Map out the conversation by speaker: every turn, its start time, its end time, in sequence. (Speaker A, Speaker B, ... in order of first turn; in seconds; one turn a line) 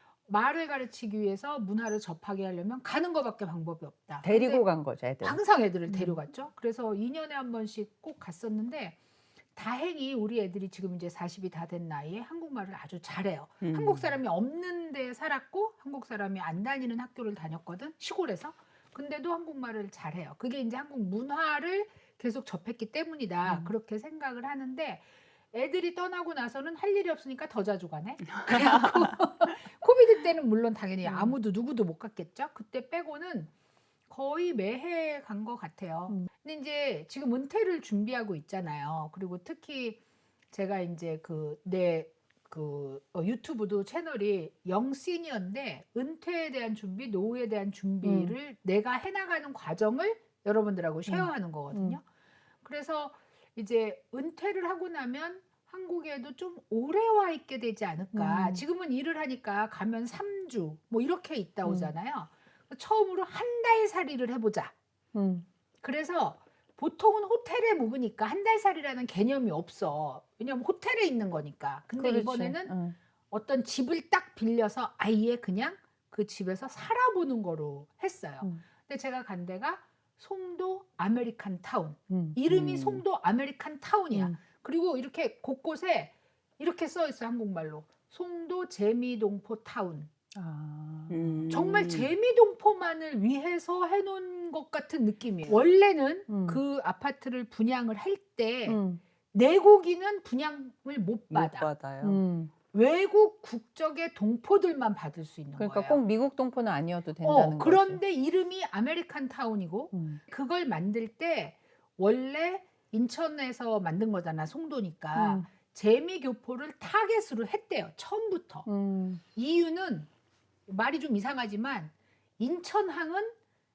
Speaker A: 0.3-4.7
Speaker B: 4.2-6.2
Speaker A: 5.2-9.0
Speaker A: 9.6-33.5
Speaker C: 13.6-14.2
Speaker B: 31.0-31.4
Speaker A: 34.1-40.0
Speaker A: 40.5-52.0
Speaker B: 48.0-48.4
Speaker B: 51.1-52.0
Speaker A: 52.6-64.7
Speaker B: 58.1-58.6
Speaker B: 61.6-61.9
Speaker B: 65.1-65.5
Speaker A: 65.8-72.8
Speaker B: 72.0-73.0
Speaker A: 73.3-90.1
Speaker B: 82.1-82.4
Speaker C: 82.5-83.0
Speaker B: 84.1-84.4
Speaker B: 90.3-91.5
Speaker C: 91.1-92.1
Speaker A: 91.5-98.8
Speaker B: 96.3-96.6
Speaker B: 98.7-99.0
Speaker A: 99.3-101.7
Speaker C: 101.3-102.2
Speaker B: 102.0-102.5
Speaker A: 102.7-106.0
Speaker B: 105.6-108.0
Speaker A: 107.2-118.7
Speaker B: 109.9-110.2
Speaker B: 115.2-115.5
Speaker B: 118.7-119.2
Speaker A: 119.3-120.1
Speaker A: 120.7-123.3